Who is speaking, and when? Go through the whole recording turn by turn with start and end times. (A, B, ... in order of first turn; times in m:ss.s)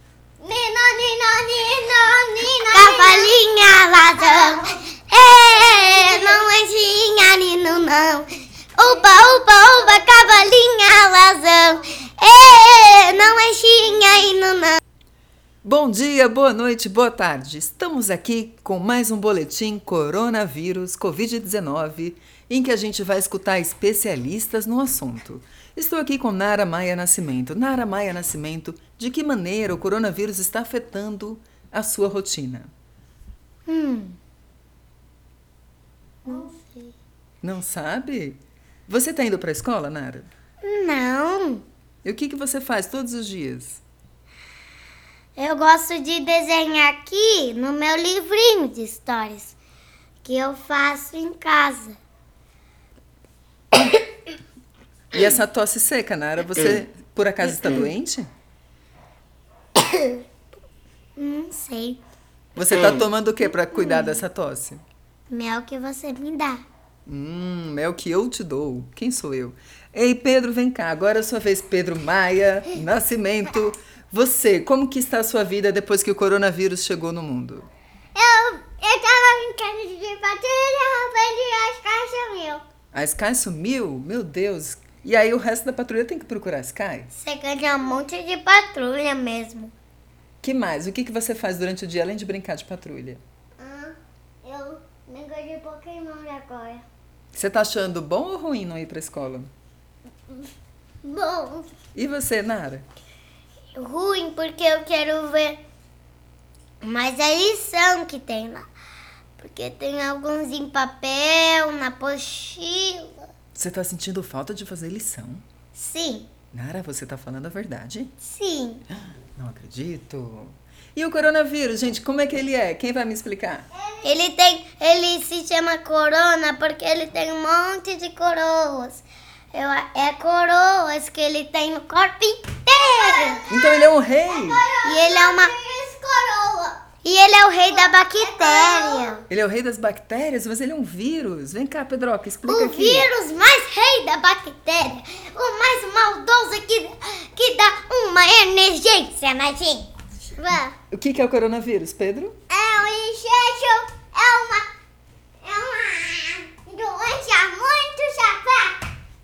0:00.4-0:03.3 A
0:02.7-0:14.8 B
0:04.2-0:04.7 A
0:15.6-0:32.7 C
0:33.7-0:34.2 B
0:36.2-0:36.9 B
0:37.4-0:40.3 C
0:40.6-0:41.6 B
0:42.0-0:43.8 C
0:45.4-0:49.6 B
0:50.2-0:52.0 B
0:55.1-0:58.3 C
1:01.2-1:02.0 B
1:02.6-1:04.8 C
1:03.7-1:04.2 B
1:05.3-1:06.6 B
1:07.1-1:17.7 C
1:18.2-1:18.8 B
1:18.8-1:22.6 A
1:22.9-1:27.1 C
1:27.2-1:29.7 B
1:30.4-1:33.2 C
1:33.6-1:33.9 B
1:34.4-1:36.8 B
1:34.6-1:35.0 A
1:37.3-1:39.5 C
1:41.0-1:41.7 B
1:41.9-1:42.8 C
1:43.7-1:45.6 B
1:46.8-1:48.7 B
1:49.4-1:53.3 B
1:53.5-1:55.4 C
1:55.7-1:56.3 B
1:56.5-1:58.1 C
1:58.2-1:58.8 B
1:59.3-2:03.6 C
2:03.7-2:04.1 A
2:04.0-2:13.4 B
2:12.8-2:16.8 A
2:13.5-2:14.6 C
2:14.8-2:15.5 B
2:17.0-2:19.2 B
2:17.7-2:19.2 A
2:19.3-2:23.1 C
2:22.4-2:30.7 B
2:30.9-2:32.3 C
2:32.5-2:34.6 A
2:35.4-2:38.8 A